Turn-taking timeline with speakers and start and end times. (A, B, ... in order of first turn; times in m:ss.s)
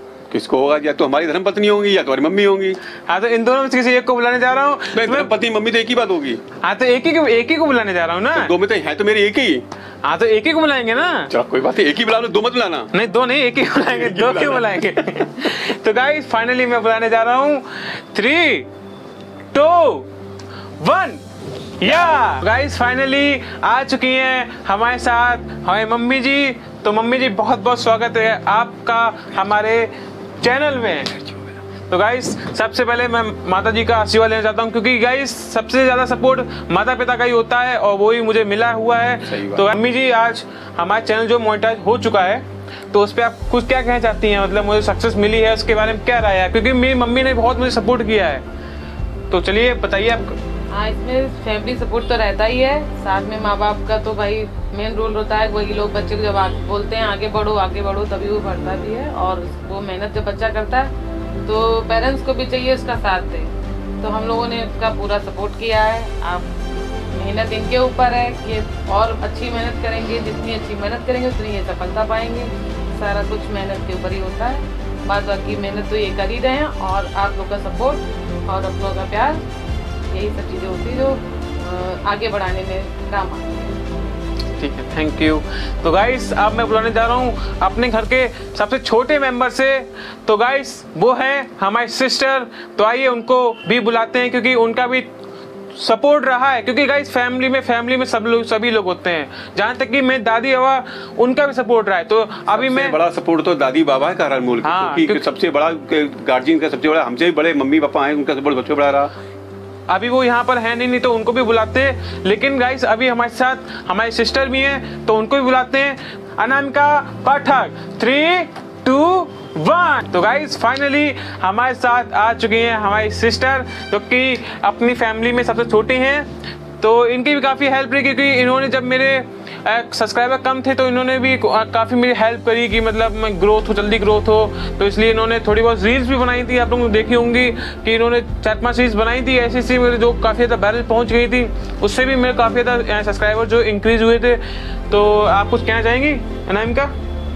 0:00.3-0:02.8 A
0:03.1-0:05.3 B
0:04.9-0:06.4 A
0:06.6-0:08.5 B
0:08.3-0:09.6 A
0:10.0-0:11.3 B
0:11.3-0:12.9 A
0:12.9-0:18.7 B
0:13.8-0:15.0 A
0:19.5-0:20.1 B
0:20.8-0:21.2 B
0:21.8-0:31.3 B
0:31.9-0:48.4 B
0:39.2-0:39.7 A
0:49.3-0:50.4 B
0:50.7-1:00.9 C
1:01.4-1:06.5 C
1:07.1-1:19.4 C
1:20.1-1:23.7 C
1:24.6-1:35.1 B
1:35.7-1:43.0 B
1:42.5-1:49.1 A
1:44.6-1:45.2 B
1:49.9-2:06.3 B
2:06.8-2:26.9 B